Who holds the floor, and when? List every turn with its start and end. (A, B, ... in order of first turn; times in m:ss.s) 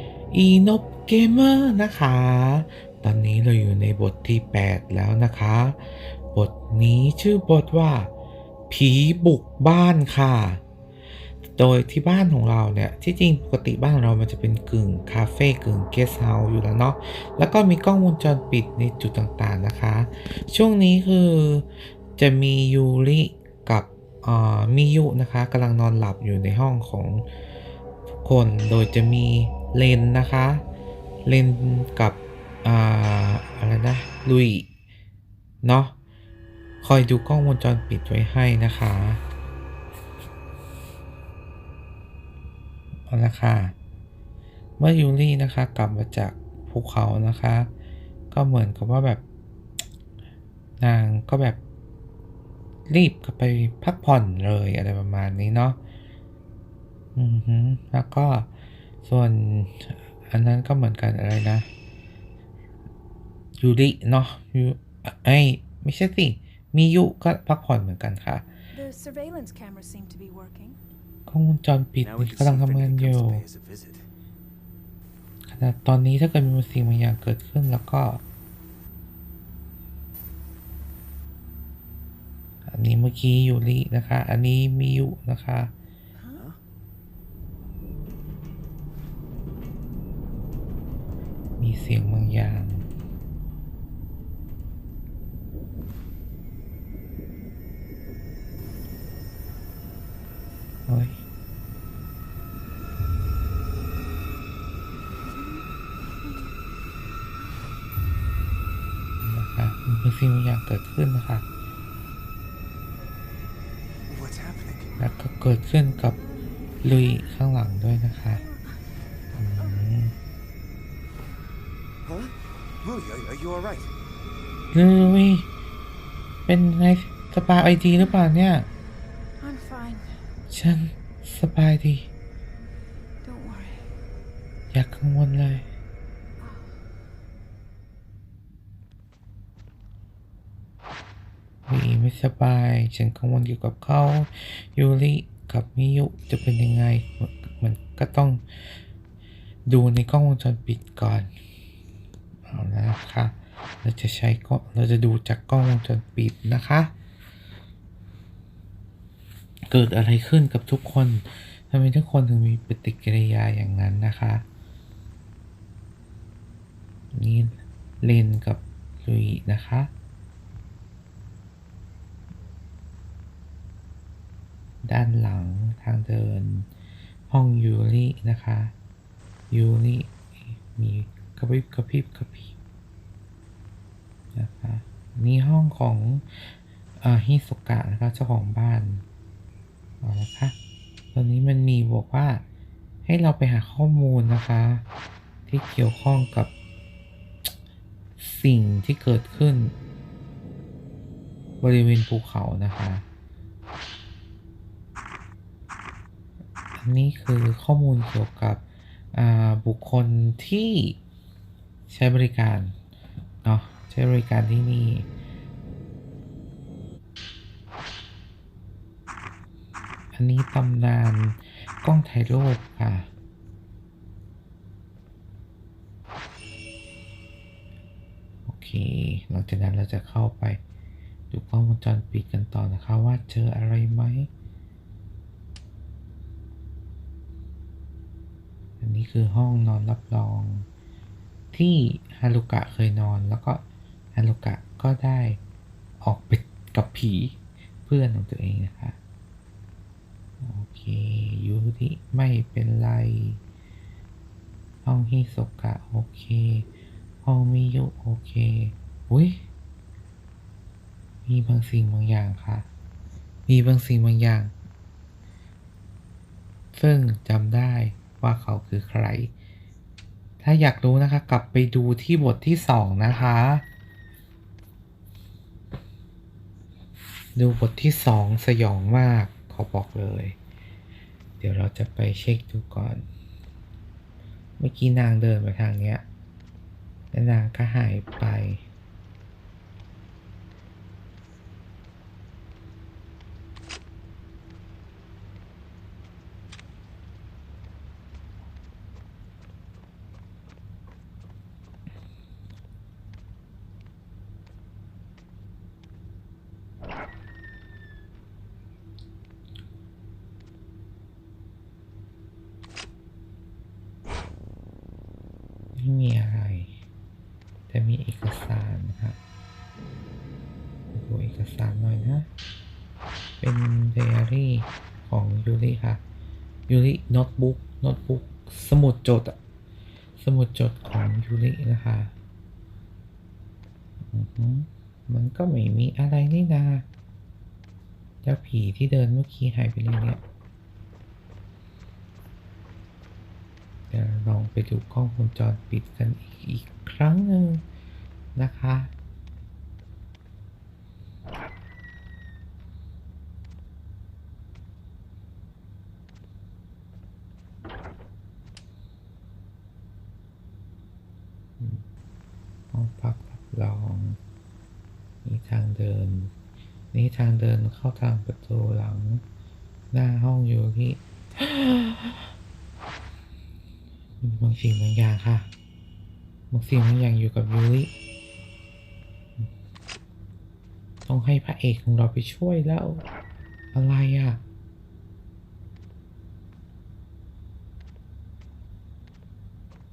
0:00.3-0:08.1 A
0:08.7-0:10.6 A
0:11.5-0:27.2 A
0:28.1-0:30.6 A
0:31.2-0:34.7 A
0:35.6-0:35.9 A
0:36.8-0:39.2 A
0:43.1-0:43.7 A
0:44.8-0:47.7 A
0:48.3-0:49.2 A
0:50.8-0:51.6 A
0:52.9-0:55.8 A
0:57.1-0:58.5 A
0:59.0-1:01.7 A
1:03.6-1:08.4 A
1:08.7-1:10.8 B
1:11.3-1:13.4 A
1:12.0-1:14.1 C
1:15.5-1:18.2 A
1:22.6-1:25.7 A
1:26.2-1:26.4 B
1:26.3-1:26.6 C
1:31.6-1:32.8 A
1:40.9-1:41.2 A
1:49.2-1:51.4 A
1:54.1-1:54.9 C
1:54.9-1:55.2 B
1:55.0-1:56.2 A
1:56.8-1:58.4 A
1:58.3-1:58.7 B
1:59.3-2:00.1 A
2:02.0-2:03.9 C
2:04.7-2:05.5 A
2:06.5-2:08.7 A
2:09.4-2:10.2 B
2:10.5-2:12.1 A
2:13.2-2:13.9 B
2:14.7-2:15.6 A
2:16.4-2:16.8 B
2:21.7-2:28.4 A
2:29.7-2:31.3 A
2:32.5-2:36.9 A
2:39.7-2:44.4 A
2:47.1-2:49.9 A
2:54.8-2:56.7 A
2:57.3-2:58.7 A
2:59.5-3:02.6 A
3:04.3-3:09.0 A
3:10.0-3:10.5 A
3:11.1-3:12.4 A
3:13.0-3:14.8 A
3:15.5-3:16.5 A
3:18.2-3:19.7 A
3:21.6-3:23.0 A
3:26.8-3:31.0 A
3:31.9-3:32.7 A
3:33.4-3:35.1 A
3:40.1-3:43.1 A
3:48.4-3:50.6 A
3:51.3-3:54.3 A
3:58.8-4:00.7 A
4:01.5-4:03.6 A
4:04.1-4:05.4 A
4:06.0-4:09.0 A
4:10.4-4:13.4 A
4:14.8-4:16.7 A
4:17.2-4:19.4 A
4:21.2-4:22.6 A
4:23.5-4:24.5 A
4:26.7-4:29.3 A
4:30.4-4:33.6 A
4:37.4-4:40.4 A
4:41.4-4:43.0 A
4:44.6-4:46.0 A
4:47.1-4:48.6 A
5:15.7-5:16.8 A
5:17.7-5:19.2 A
5:20.9-5:22.3 A
5:23.4-5:26.0 A
5:26.7-5:29.4 A
5:30.2-5:32.1 A
5:34.0-5:36.8 A
5:38.2-5:40.2 A
5:43.9-5:47.6 A
5:48.3-5:48.9 A
6:02.7-6:04.2 A
6:05.2-6:06.3 A
6:06.9-6:09.2 A
6:09.9-6:12.3 A
6:14.2-6:15.5 A
6:16.5-6:17.9 A
6:21.0-6:23.0 A
6:23.7-6:24.4 A